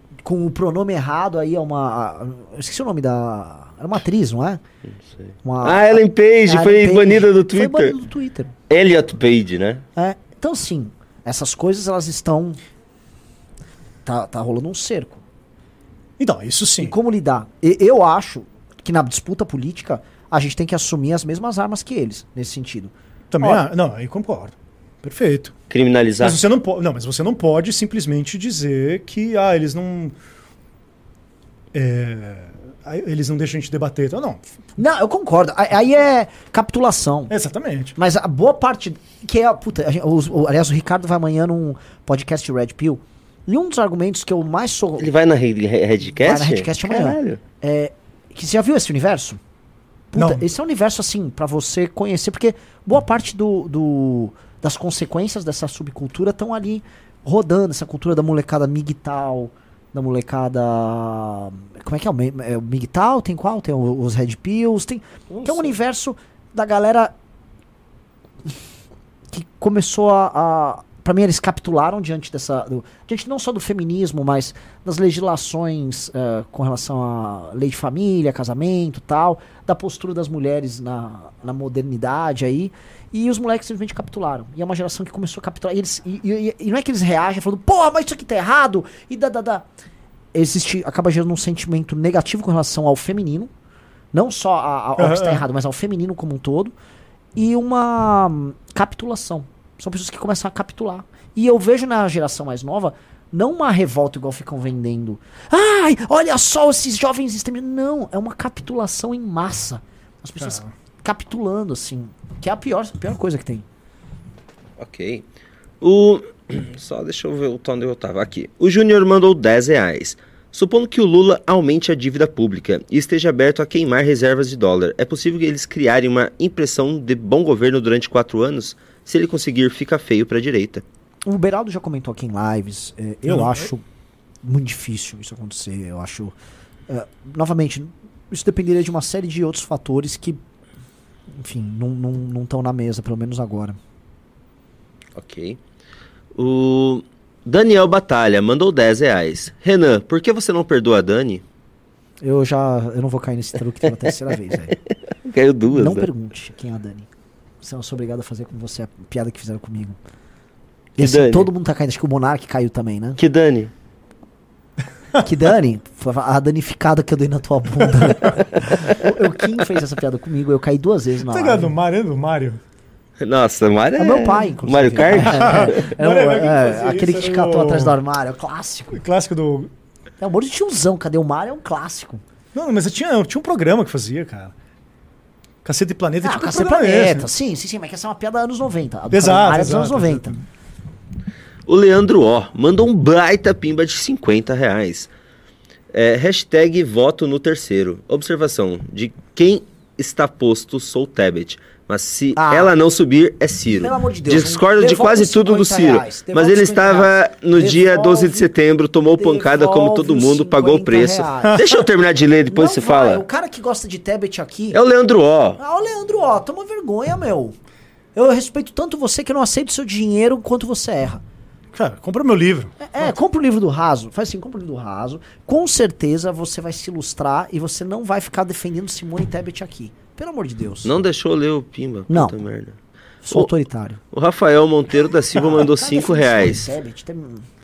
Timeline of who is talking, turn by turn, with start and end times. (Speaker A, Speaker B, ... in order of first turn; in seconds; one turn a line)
Speaker A: 0.2-4.6
Speaker A: 5.4-8.5
Speaker B: 5.6-8.0
Speaker B: 8.7-9.8
Speaker A: 9.9-12.6
Speaker A: 14.0-15.2
Speaker C: 16.2-16.9
Speaker A: 16.8-23.6
Speaker C: 23.3-25.5
Speaker B: 25.7-26.4
Speaker C: 26.2-30.1
Speaker C: 31.7-34.4
Speaker A: 34.8-37.3
Speaker C: 37.3-37.9
Speaker A: 38.0-45.1
Speaker B: 45.0-47.4
Speaker A: 46.2-49.4
Speaker A: 50.1-67.1
Speaker C: 50.1-50.4
Speaker A: 69.3-89.6
Speaker A: 90.3-93.5
Speaker A: 94.1-96.7
Speaker C: 95.0-95.4
Speaker A: 97.3-113.6
Speaker C: 110.4-110.7
Speaker B: 114.8-115.2
Speaker B: 115.8-130.8
Speaker A: 131.2-133.8
Speaker C: 133.3-133.7
Speaker A: 134.4-136.3
Speaker A: 136.9-140.4
Speaker A: 141.3-143.8
Speaker B: 145.2-145.6
Speaker B: 146.3-151.4
Speaker A: 152.2-154.8
Speaker B: 155.2-156.1
Speaker A: 155.7-157.1
Speaker A: 157.6-160.0
Speaker A: 161.0-163.2
Speaker B: 161.0-161.5
Speaker B: 163.2-163.7
Speaker A: 165.2-171.7
Speaker C: 167.8-168.4
Speaker C: 171.2-172.6
Speaker B: 173.2-175.9
Speaker A: 174.0-179.0
Speaker C: 175.3-178.0
Speaker C: 178.9-179.7
Speaker A: 180.2-182.2
Speaker C: 182.5-184.5
Speaker C: 185.6-187.3
Speaker A: 186.2-190.4
Speaker C: 189.1-190.3
Speaker B: 191.7-195.1
Speaker B: 195.9-213.2
Speaker A: 202.3-202.7
Speaker A: 203.8-208.5
Speaker A: 209.1-211.7
Speaker C: 211.4-211.8
Speaker A: 212.5-214.8
Speaker B: 214.7-215.6
Speaker A: 215.6-217.5
Speaker A: 218.2-221.2
Speaker C: 221.7-223.2
Speaker A: 222.8-230.9
Speaker B: 230.8-232.8
Speaker A: 232.1-232.3
Speaker A: 233.2-234.0
Speaker B: 234.1-236.7
Speaker A: 235.3-237.4